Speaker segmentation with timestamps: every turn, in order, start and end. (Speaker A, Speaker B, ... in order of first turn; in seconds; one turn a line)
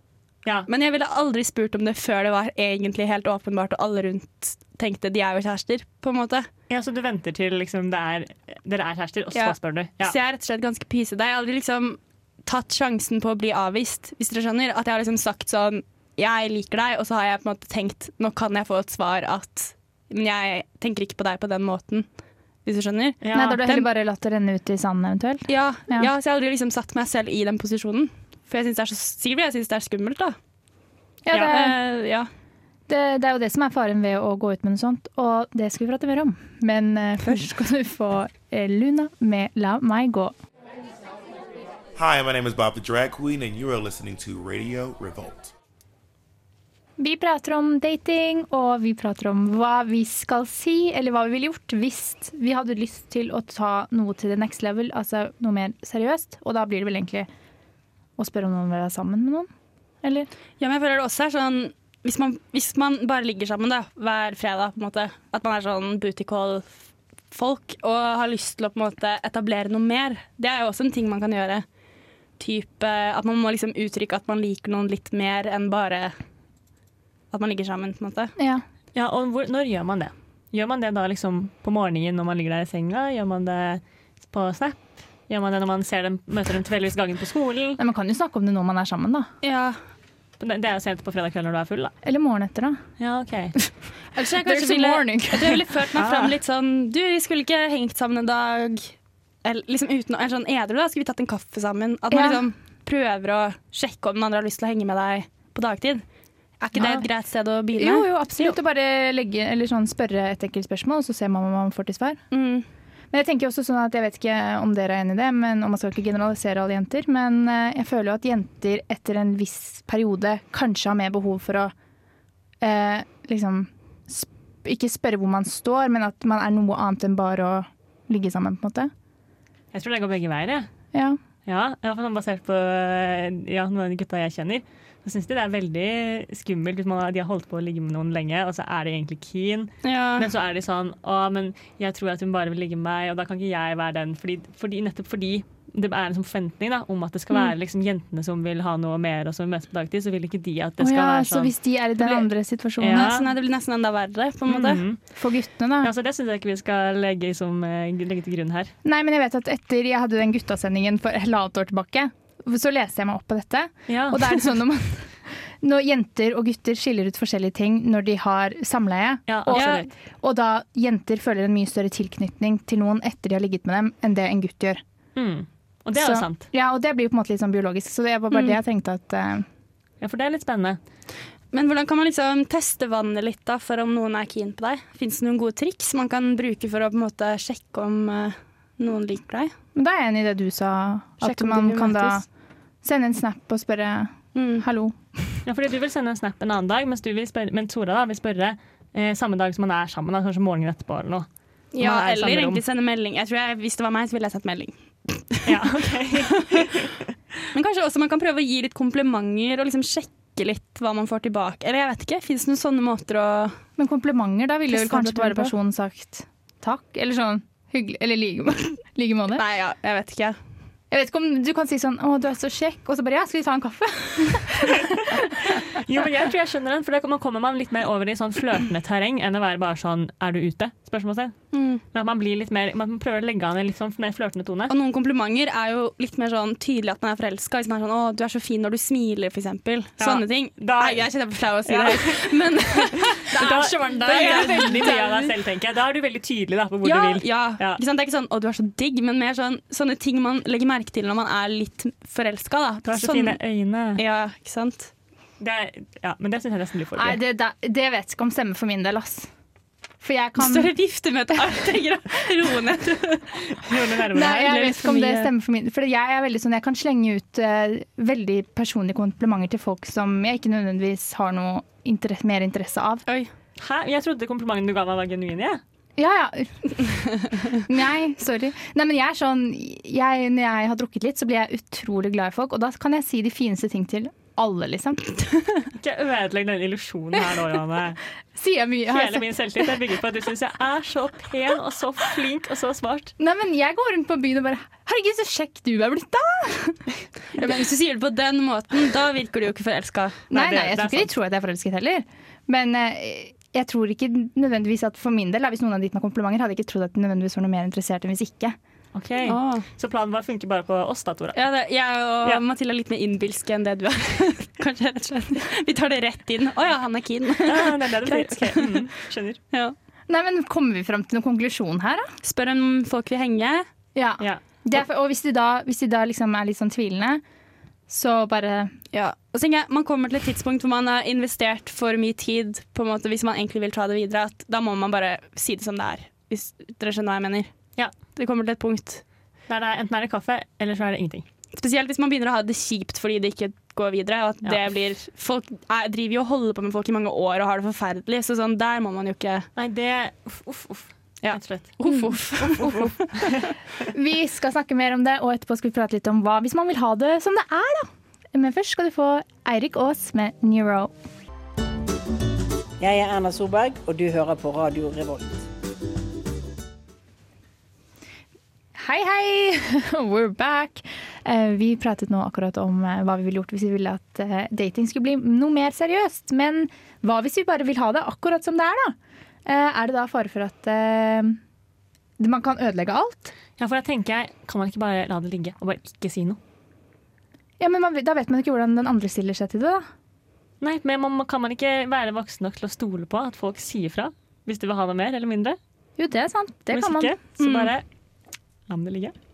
Speaker A: 0.7-6.5
Speaker B: 6.7-10.2
Speaker A: 9.3-22.1
Speaker A: 22.6-23.9
Speaker B: 23.2-23.6
Speaker C: 23.3-26.1
Speaker A: 25.5-30.4
Speaker C: 31.2-31.8
Speaker A: 31.3-32.3
Speaker C: 32.9-40.3
Speaker D: 42.0-45.5
Speaker C: 47.0-57.3
Speaker C: 58.2-59.5
Speaker C: 60.0-60.3
Speaker A: 60.6-66.7
Speaker A: 67.3-71.6
Speaker A: 72.4-76.1
Speaker A: 77.3-78.3
Speaker C: 78.4-78.6
Speaker B: 79.0-87.8
Speaker C: 87.8-89.3
Speaker A: 89.4-89.8
Speaker B: 90.4-91.9
Speaker C: 92.0-92.8
Speaker B: 93.0-93.5
Speaker A: 94.1-106.0
Speaker C: 94.4-95.6
Speaker B: 96.0-96.4
Speaker C: 102.1-102.4
Speaker A: 106.6-108.6
Speaker C: 106.8-107.1
Speaker C: 107.8-112.2
Speaker A: 112.3-112.7
Speaker C: 113.1-121.7
Speaker C: 122.6-128.9
Speaker B: 129.7-130.7
Speaker B: 131.5-151.5
Speaker A: 139.8-140.2
Speaker C: 150.8-153.2
Speaker A: 152.0-152.3
Speaker B: 152.8-153.3
Speaker A: 152.9-154.8
Speaker B: 154.5-155.0
Speaker C: 155.2-155.9
Speaker B: 155.8-158.7
Speaker C: 158.8-165.1
Speaker B: 163.9-164.4
Speaker C: 165.6-174.8
Speaker B: 169.3-169.9
Speaker A: 169.5-169.8
Speaker B: 175.2-176.5
Speaker C: 175.9-179.4
Speaker A: 178.3-178.6
Speaker B: 180.0-180.8
Speaker A: 181.5-189.5
Speaker C: 189.8-192.2
Speaker A: 191.2-192.2
Speaker C: 192.8-194.9
Speaker A: 194.3-194.6
Speaker B: 195.5-201.2
Speaker A: 201.7-205.6
Speaker B: 201.8-202.6
Speaker B: 205.4-206.9
Speaker A: 206.4-206.7
Speaker A: 207.5-213.6
Speaker C: 213.8-219.4
Speaker A: 214.7-215.5
Speaker A: 219.3-220.4
Speaker C: 220.9-225.2
Speaker B: 225.7-231.4
Speaker A: 231.5-231.8
Speaker B: 231.9-234.7
Speaker A: 234.7-245.1
Speaker B: 240.0-241.1
Speaker B: 241.6-247.8
Speaker C: 243.3-245.3
Speaker A: 246.8-253.4
Speaker B: 252.9-254.0
Speaker A: 254.0-254.9
Speaker B: 255.4-257.2
Speaker C: 257.0-259.3
Speaker C: 260.0-260.7
Speaker A: 260.4-263.3
Speaker B: 263.5-264.7
Speaker C: 264.1-273.0
Speaker A: 264.5-265.3
Speaker B: 273.6-275.6
Speaker C: 276.0-276.9
Speaker C: 277.6-285.2
Speaker B: 285.8-288.0
Speaker C: 288.4-289.3
Speaker B: 288.9-293.1
Speaker C: 293.2-296.8
Speaker A: 297.4-300.2
Speaker B: 300.3-301.1
Speaker C: 300.3-308.6
Speaker B: 308.9-311.4
Speaker A: 309.2-309.6
Speaker A: 311.4-318.9
Speaker B: 317.4-319.4
Speaker C: 320.1-322.1
Speaker A: 322.2-323.6
Speaker C: 323.9-327.2
Speaker C: 327.9-328.7
Speaker A: 328.9-337.5
Speaker A: 338.1-339.0
Speaker B: 339.5-341.2
Speaker A: 341.6-349.5
Speaker B: 349.6-351.8
Speaker A: 351.2-353.3
Speaker B: 352.4-353.5
Speaker C: 353.9-360.9
Speaker E: 362.8-365.4
Speaker C: 368.8-381.4
Speaker C: 382.2-383.3
Speaker B: 383.6-386.4
Speaker C: 387.6-389.9
Speaker B: 390.6-395.6
Speaker C: 396.0-397.1
Speaker B: 396.7-397.9
Speaker A: 397.4-397.7
Speaker B: 398.7-399.1